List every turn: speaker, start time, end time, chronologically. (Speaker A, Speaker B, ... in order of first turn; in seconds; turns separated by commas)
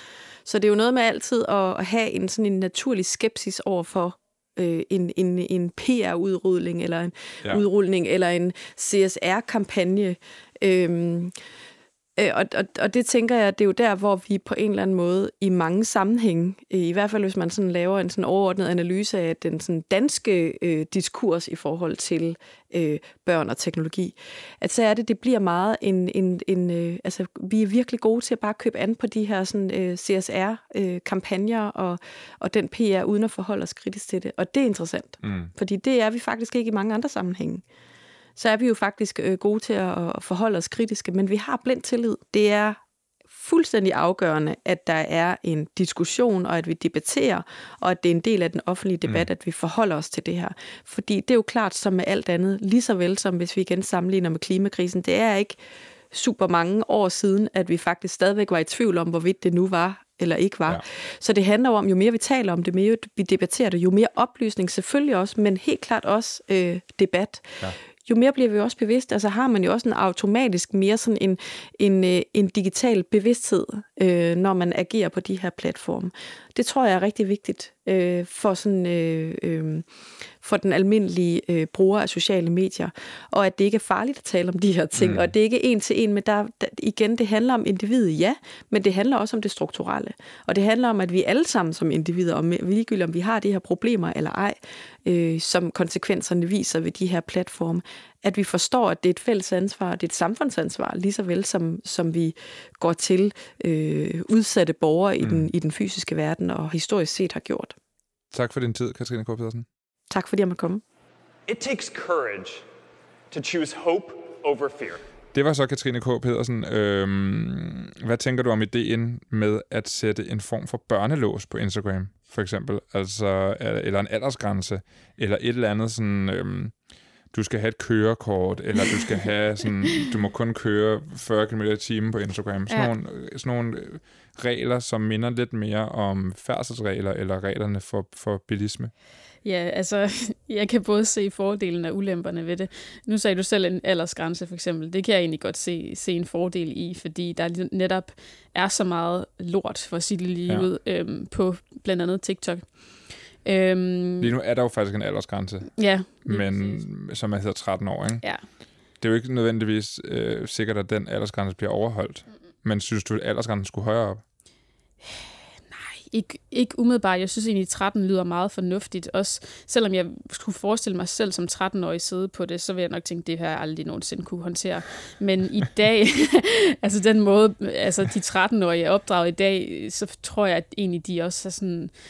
Speaker A: 0.4-11.3, Speaker A: 12.2-37.6, Speaker B: 35.2-35.5, Speaker A: 38.4-42.8, Speaker A: 43.3-55.5, Speaker A: 56.1-79.9, Speaker A: 80.4-107.7, Speaker B: 84.9-85.3, Speaker B: 105.2-105.5, Speaker B: 108.3-109.7, Speaker A: 110.1-110.8, Speaker C: 111.5-112.6, Speaker C: 113.3-115.0, Speaker B: 115.3-126.7, Speaker B: 127.3-138.9, Speaker D: 139.4-154.3, Speaker B: 154.2-158.2, Speaker D: 155.8-156.8, Speaker B: 159.0-164.2, Speaker D: 165.0-181.9